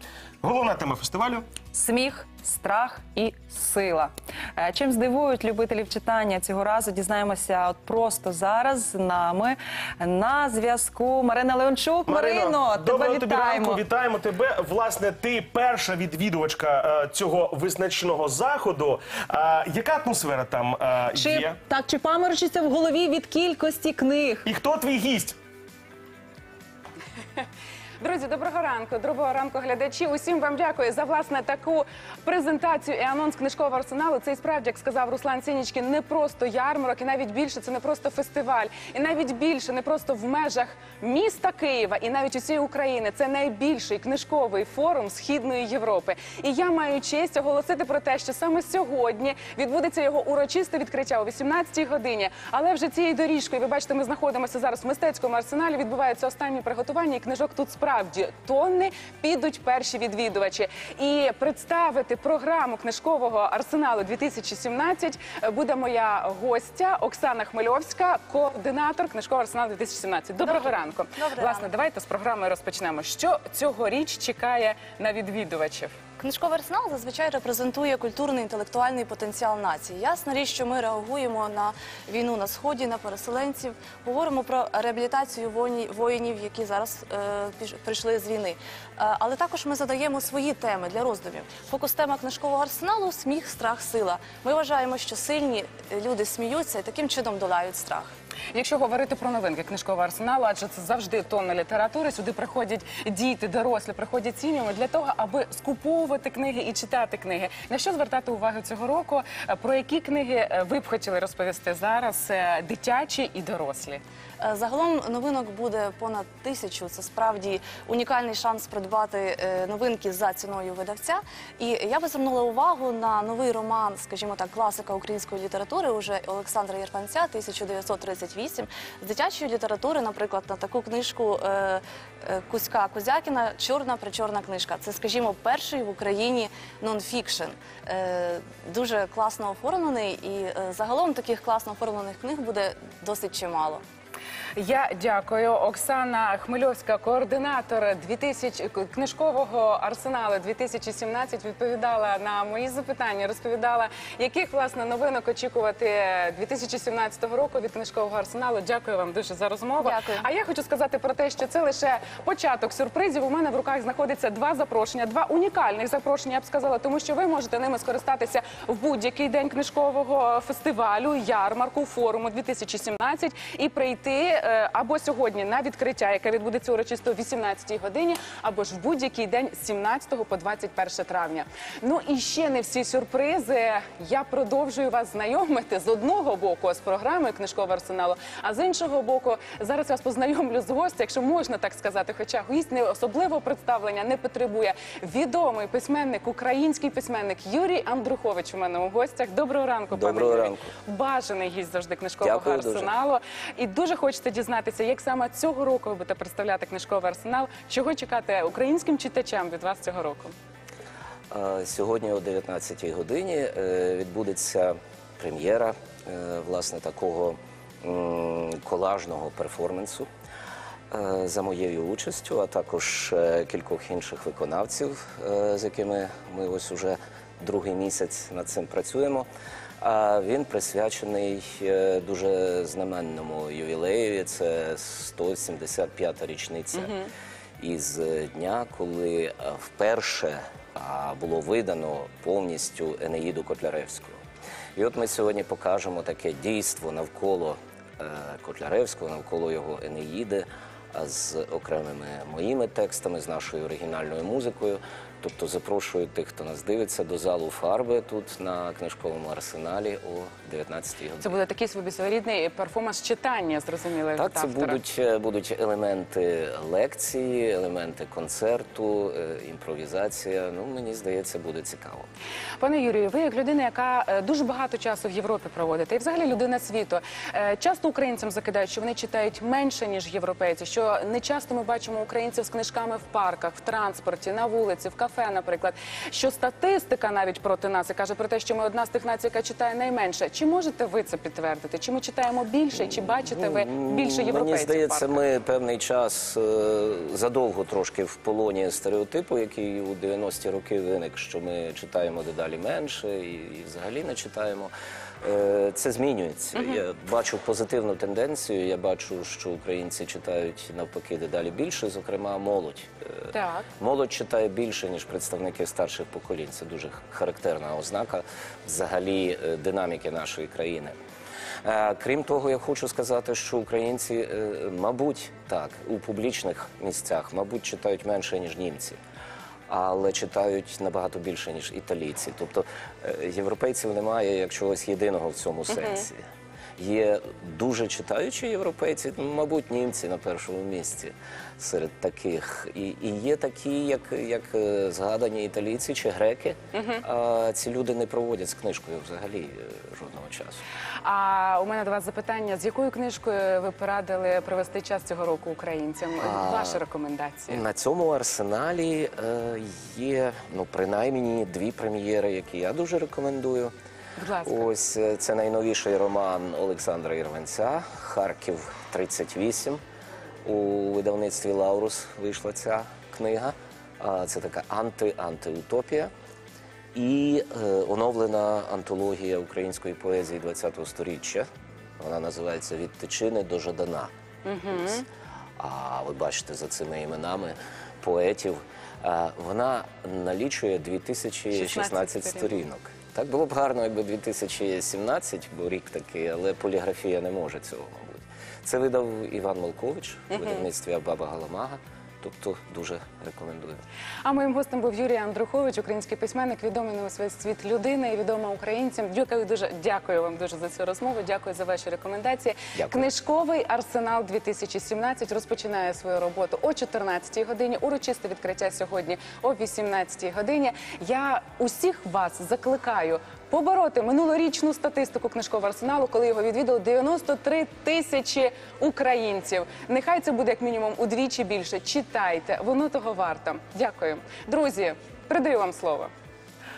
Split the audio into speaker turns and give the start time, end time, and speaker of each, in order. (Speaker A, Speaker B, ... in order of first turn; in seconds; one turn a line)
Speaker A: 0.4-1.6
Speaker B: 1.7-13.8
Speaker A: 12.1-21.6
Speaker A: 24.4-25.4
Speaker C: 28.0-75.9
Speaker D: 70.4-71.7
Speaker D: 76.2-98.1
Speaker C: 98.5-114.0
Speaker D: 114.4-143.8
Speaker C: 144.6-210.3
Speaker D: 159.8-160.2
Speaker E: 199.9-200.7
Speaker E: 202.2-202.9
Speaker E: 211.3-220.1
Speaker E: 220.9-229.3
Speaker E: 229.8-236.9
Speaker C: 236.8-237.1
Speaker E: 237.6-244.2
Speaker E: 244.8-261.3
Speaker C: 261.2-264.8
Speaker E: 264.2-272.1
Speaker C: 272.6-295.2
Speaker E: 292.8-304.7
Speaker E: 305.2-320.9
Speaker C: 306.5-306.8
Speaker C: 313.3-313.7
Speaker E: 321.6-329.0
Speaker E: 329.7-336.2
Speaker C: 335.7-336.1
Speaker E: 336.8-350.6
Speaker C: 346.7-347.0
Speaker C: 351.0-357.6
Speaker E: 356.2-356.8
Speaker E: 357.5-363.7
Speaker C: 364.2-364.7
Speaker E: 364.4-369.8
Speaker E: 370.4-376.1
Speaker E: 376.9-381.5
Speaker E: 382.0-384.1
Speaker C: 384.4-385.1
Speaker E: 385.6-403.8
Speaker C: 391.5-392.6
Speaker C: 400.3-400.7
Speaker C: 404.2-436.1
Speaker E: 412.8-413.1